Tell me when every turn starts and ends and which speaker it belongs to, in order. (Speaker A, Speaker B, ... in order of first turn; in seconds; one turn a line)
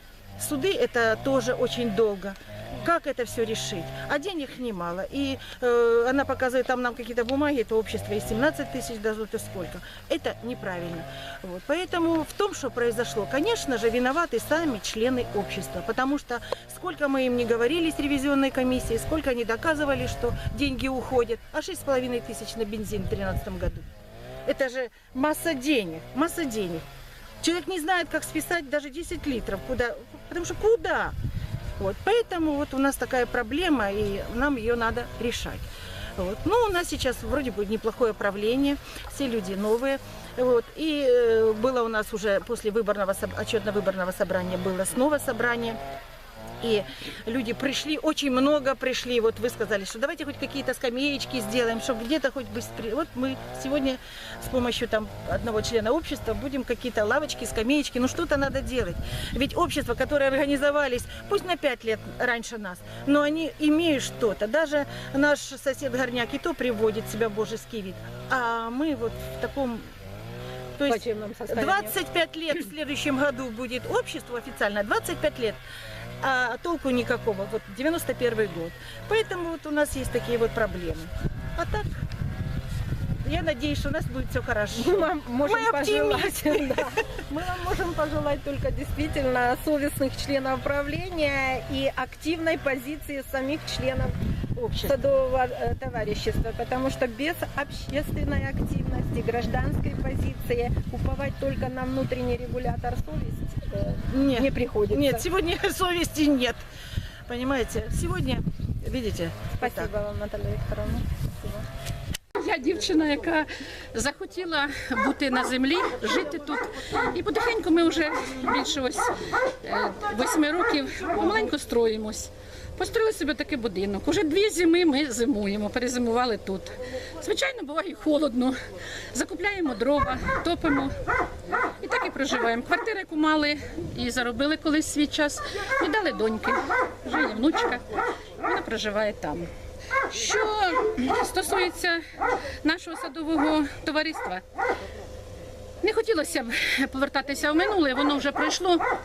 Speaker A: 0.4-23.9
Speaker A: 24.4-26.9
Speaker A: 27.4-31.2
Speaker A: 31.8-45.8
Speaker A: 46.6-69.9
Speaker A: 70.8-75.6
Speaker B: 70.9-72.0
Speaker A: 76.2-82.0
Speaker A: 83.2-87.3
Speaker B: 84.7-94.2
Speaker A: 94.6-95.0
Speaker B: 94.8-105.2
Speaker A: 104.1-106.6
Speaker A: 107.3-109.9
Speaker B: 109.6-111.7
Speaker C: 112.4-131.0
Speaker C: 131.8-137.8
Speaker C: 138.4-139.5
Speaker C: 140.1-142.0
Speaker C: 142.6-144.4
Speaker C: 145.8-148.8